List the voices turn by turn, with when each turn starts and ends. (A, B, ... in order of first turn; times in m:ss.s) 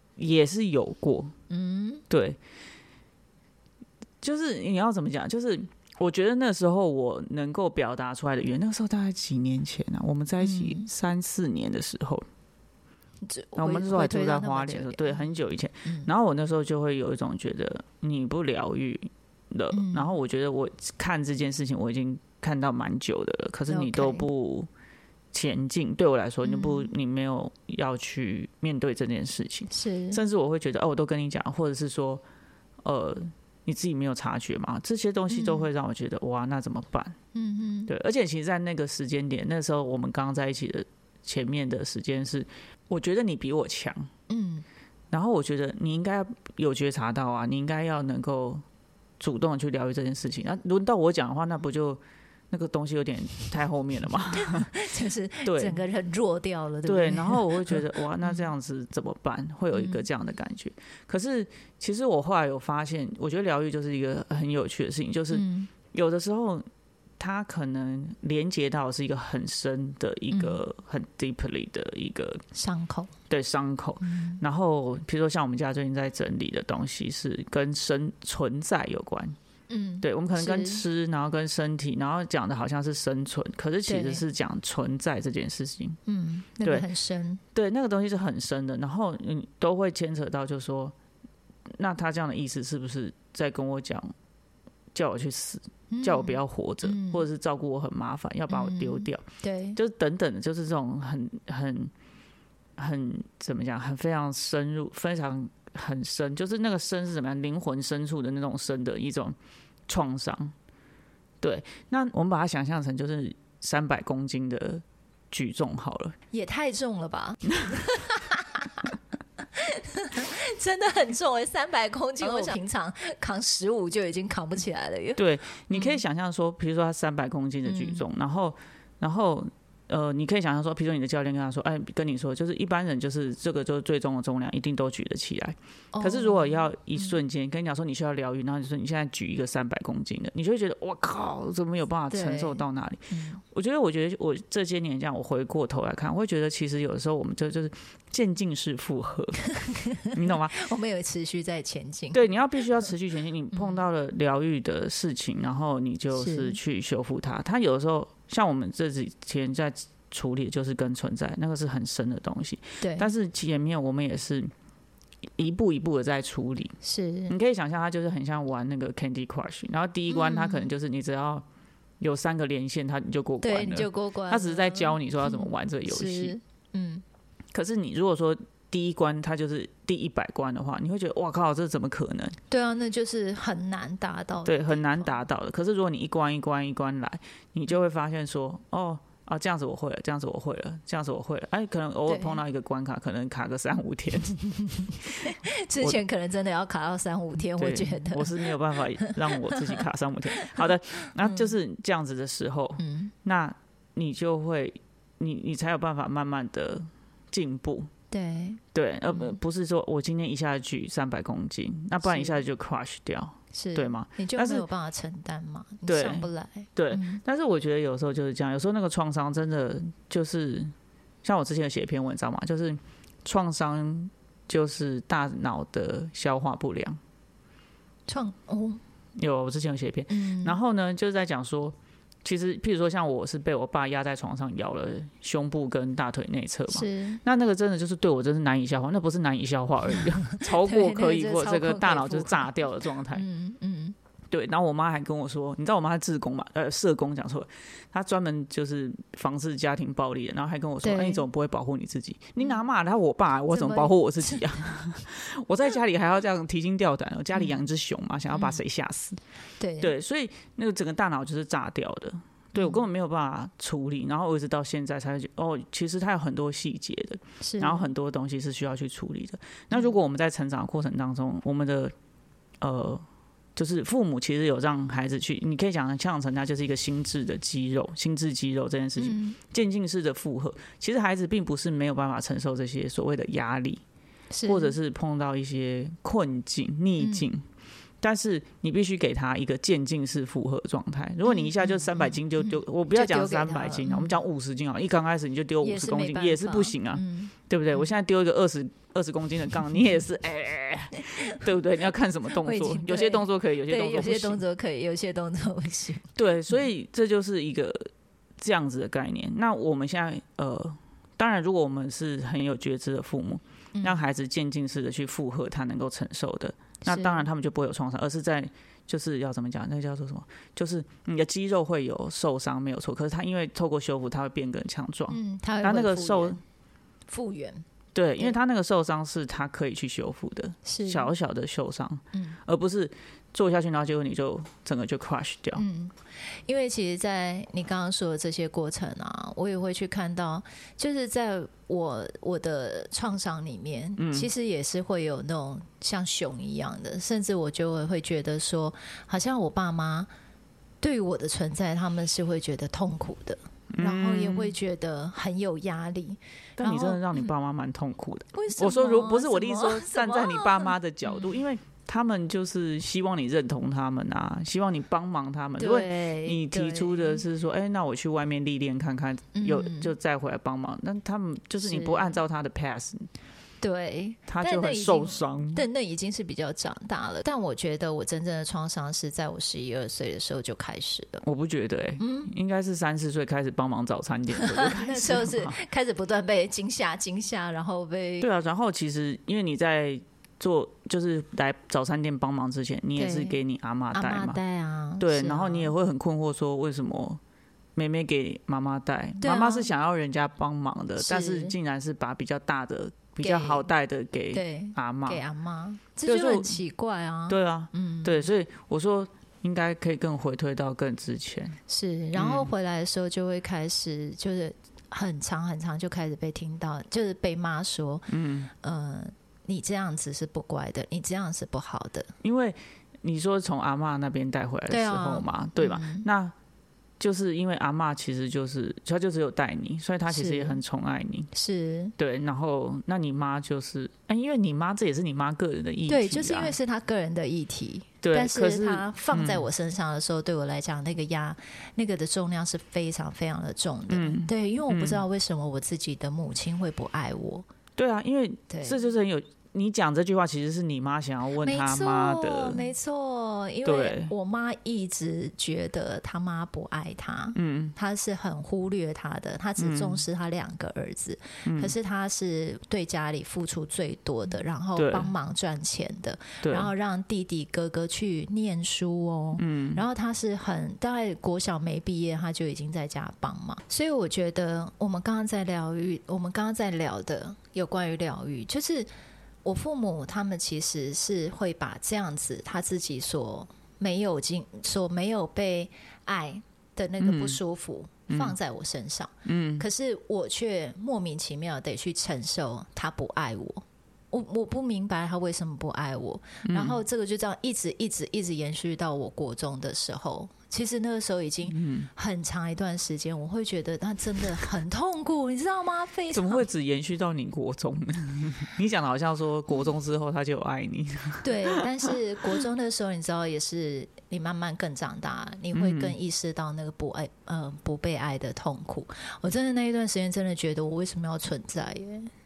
0:00.2-0:01.3 A
0:01.5-0:02.0 B
0:02.1-0:02.4 A
0:04.2-0:12.2 A
0:10.4-0:10.9 B
0:13.2-0:15.2 B
0:13.6-0:24.7 A
0:15.8-0:16.1 B
0:19.7-0:20.1 B
0:23.7-0:24.3 B
0:25.3-0:32.2 A
0:26.4-0:26.9 B
0:29.7-0:30.2 B
0:32.8-0:37.2 A
0:35.3-0:35.7 B
0:37.3-0:37.9 B
0:37.9-0:44.1 A
0:44.3-0:44.6 B
0:45.1-0:48.6 A
0:49.2-0:54.7 A
0:54.4-0:58.5 B
0:55.4-0:55.8 A
0:56.8-1:06.6 A
0:59.7-1:00.0 B
1:05.3-1:05.7 B
1:07.2-1:12.4 A
1:10.3-1:10.6 B
1:12.5-1:13.1 B
1:13.3-1:19.4 A
1:14.0-1:14.4 B
1:19.7-1:20.8 B
1:20.0-1:26.0 A
1:23.9-1:24.2 B
1:26.0-1:27.4 B
1:27.5-1:30.9 A
1:31.8-1:34.1 A
1:34.9-1:39.2 A
1:35.9-1:37.2 B
1:38.5-1:39.8 B
1:39.8-1:41.9 A
1:42.8-1:49.4 A
1:49.9-1:50.5 A
1:51.4-1:56.2 A
1:56.3-1:58.8 B
1:59.4-2:06.0 B
2:02.2-2:02.5 A
2:05.2-2:29.5 A
2:07.6-2:08.0 B
2:15.9-2:17.2 B
2:22.1-2:23.4 B
2:29.6-2:32.2 B
2:30.1-2:30.6 A
2:32.1-2:44.5 A
2:33.5-2:33.8 B
2:36.1-2:36.6 B
2:42.8-2:43.1 B
2:45.4-2:46.8 A
2:46.8-2:47.3 B
2:47.3-2:51.4 A
2:50.1-2:50.7 B
2:52.0-2:56.3 A
2:53.4-2:57.0 B
2:57.5-3:02.4 A
3:02.5-3:05.1 B
3:04.4-3:15.2 A
3:12.1-3:12.4 B
3:15.2-3:19.5 B
3:17.6-3:27.9 A
3:20.3-3:20.6 B
3:21.2-3:21.5 B
3:22.8-3:23.1 B
3:28.1-3:29.3 B
3:28.7-3:34.6 A
3:32.0-3:32.4 B
3:33.5-3:37.2 B
3:35.9-3:40.7 A
3:41.2-3:47.0 A
3:48.1-3:48.8 B
3:49.2-4:03.2 A
3:50.1-3:50.6 B
3:56.7-3:57.2 B
4:00.1-4:04.0 B
4:04.3-4:19.2 A
4:10.8-4:11.2 B
4:13.5-4:14.5 B
4:18.3-4:18.6 B
4:19.6-4:19.9 B
4:19.8-4:31.9 A
4:22.6-4:22.8 B
4:27.4-4:27.8 B
4:32.6-4:33.0 A
4:33.6-4:43.8 A
4:39.0-4:39.4 B
4:44.3-4:44.7 B
4:44.4-4:47.4 A
4:47.0-4:47.3 B
4:48.0-5:04.4 A
4:51.2-4:54.2 B
4:55.6-4:57.8 B
5:02.3-5:06.1 B
5:06.1-5:26.4 A
5:13.7-5:14.0 B
5:16.8-5:17.2 B
5:25.1-5:26.4 B
5:27.1-5:27.6 B
5:27.9-5:35.6 A
5:30.6-5:31.1 B
5:32.1-5:32.4 B
5:35.6-5:50.1 B
5:44.0-5:44.3 A
5:50.8-5:57.3 B
5:53.7-5:54.5 A
5:56.6-6:13.1 A
5:58.3-6:01.4 B
6:05.6-6:07.2 B
6:09.3-6:09.9 B
6:11.6-6:12.2 B
6:13.6-6:21.2 B
6:14.3-6:15.6 A
6:21.2-6:25.6 A
6:22.0-6:22.3 B
6:24.3-6:28.3 B
6:28.2-6:34.4 A
6:33.0-6:33.4 B
6:33.9-6:35.7 B
6:35.0-6:37.2 A
6:37.8-6:45.2 A
6:39.2-6:39.7 B
6:41.0-6:41.6 B
6:43.2-6:43.7 B
6:44.3-6:48.3 B
6:46.0-6:46.6 A
6:47.3-6:51.6 A
6:51.7-7:02.1 B
6:52.1-6:52.5 A
6:58.1-6:58.5 A
7:02.2-7:06.3 A
7:04.7-7:06.0 B
7:07.0-7:11.3 A
7:10.1-7:10.6 B
7:11.3-7:11.9 B
7:12.0-7:16.5 A
7:15.9-7:27.4 B
7:18.0-7:19.4 A
7:23.9-7:25.0 A
7:27.8-7:32.7 A
7:28.5-7:28.8 B
7:31.4-7:58.9 B
7:33.6-7:34.1 A
7:37.4-7:37.7 A
7:39.6-7:40.0 A
7:41.4-7:41.7 A
7:44.8-7:45.1 A
7:46.4-7:46.7 A
7:49.4-7:49.8 A
7:59.4-8:26.4 B
8:07.0-8:07.4 A
8:08.1-8:08.4 A
8:09.2-8:09.6 A
8:16.4-8:16.8 A
8:21.5-8:21.9 A
8:26.1-8:31.9 A
8:31.2-8:42.1 B
8:35.5-8:36.0 A